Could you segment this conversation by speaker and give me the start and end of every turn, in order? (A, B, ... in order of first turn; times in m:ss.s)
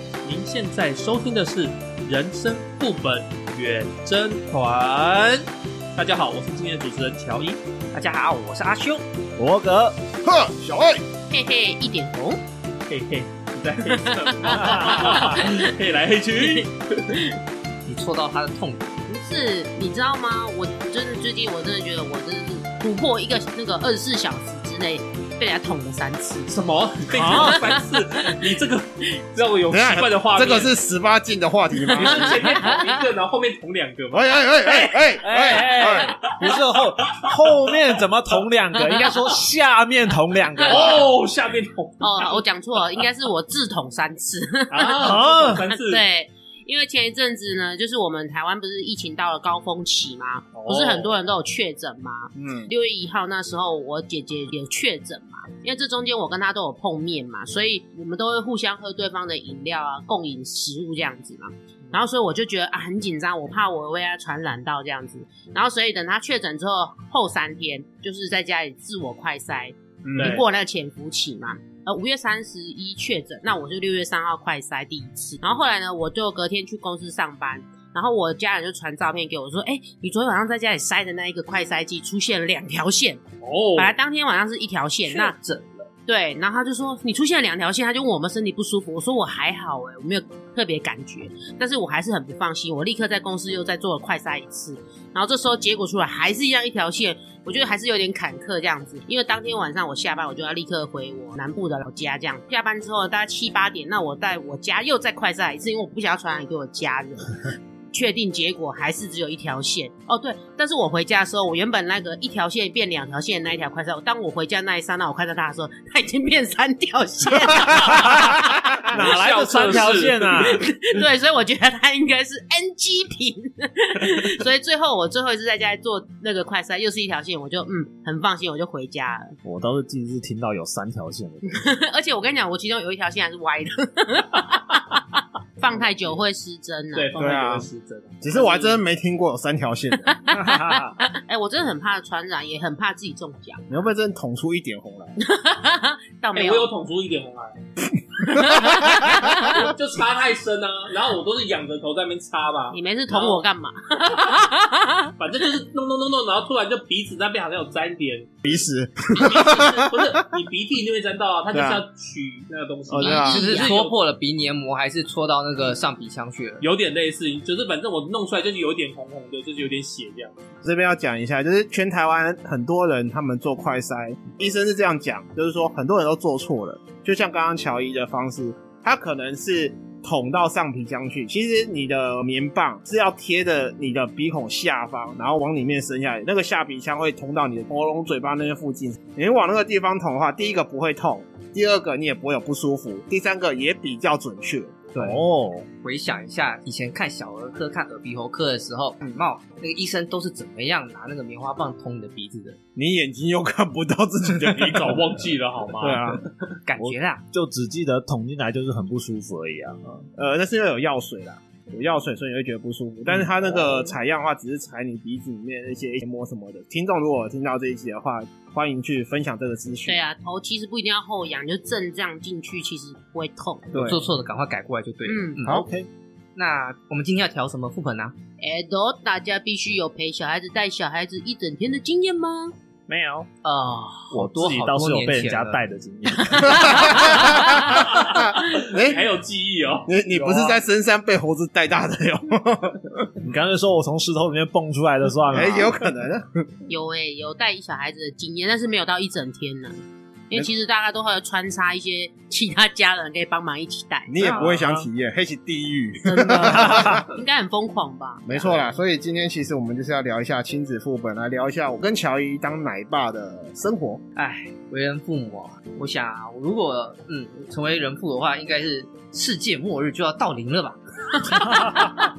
0:00.2-0:07.6 A
0:07.9-0:09.0 B
0:09.4-0:10.0 C
0:10.2-0:11.0 D
0:11.3-0:12.4 E
0:12.9-0:17.1 A
0:13.8-0:15.7 E
0:14.4-0:15.4 C
0:16.5-0:17.3 E
0:17.8-0:19.0 B
0:19.1-0:26.6 E
0:26.5-0:30.7 A
0:27.2-0:27.5 C
0:27.2-0:28.5 E
0:29.7-0:32.6 D
0:31.8-0:33.0 E
0:32.0-0:34.4 A
0:34.1-0:36.2 D
0:35.2-0:41.1 C
0:36.3-0:37.7 A
0:38.8-0:39.1 E
0:40.6-0:41.0 E
0:40.6-0:42.4 A
0:42.0-0:45.1 E
0:44.7-0:46.0 A
0:45.0-0:45.7 C
0:45.7-1:23.2 E
0:50.6-0:51.1 A
0:52.3-0:52.7 D
1:10.0-1:10.4 D
1:10.2-1:10.4 A
1:23.4-1:24.0 A
1:23.8-1:25.3 E
1:25.1-1:25.9 B
1:26.1-1:58.9 E
1:57.8-2:00.7 C
1:58.9-2:00.2 A
2:00.2-2:09.4 E
2:09.4-2:11.6 C
2:11.4-2:15.0 E
2:15.6-2:17.1 E
2:16.9-2:18.8 A
2:17.2-2:17.7 D
2:18.2-2:20.2 D
2:20.1-2:23.6 E
2:20.3-2:21.0 C
2:23.7-2:25.2 D
2:25.2-2:26.7 E
2:26.3-2:27.6 A
2:28.2-2:29.7 E
2:29.0-2:33.4 A
2:32.7-2:35.1 E
2:35.2-2:44.0 A
2:38.4-2:40.2 D
2:41.5-2:41.8 D
2:42.9-2:43.5 D
2:43.0-2:43.8 E
2:43.1-2:46.6 B
2:46.6-2:50.5 A
2:50.6-3:14.9 D
3:15.0-3:15.7 C
3:15.8-3:22.6 B
3:22.8-3:26.2 D
3:24.4-3:26.3 A
3:26.7-3:27.2 B
3:26.8-3:30.0 C
3:30.2-3:40.0 D
3:39.9-3:43.7 E
3:43.7-3:44.0 D
3:43.8-3:45.6 B
3:45.1-3:45.6 E
3:45.4-3:45.9 C
3:46.3-3:48.2 B
3:48.4-3:52.5 E
3:52.9-3:53.3 C
3:53.4-3:55.6 B
3:54.1-3:56.9 C
3:56.4-3:57.8 E
3:56.4-3:59.1 D
3:57.7-4:00.6 A
3:59.9-4:03.1 D
4:03.2-4:05.8 C
4:05.3-4:06.5 D
4:06.7-4:14.1 E
4:14.1-4:17.1 D
4:14.2-4:14.6 B
4:14.5-4:14.8 C
4:16.0-4:18.6 E
4:16.6-4:17.0 C
4:18.3-4:24.0 D
4:24.2-4:31.4 B
4:31.3-4:32.0 C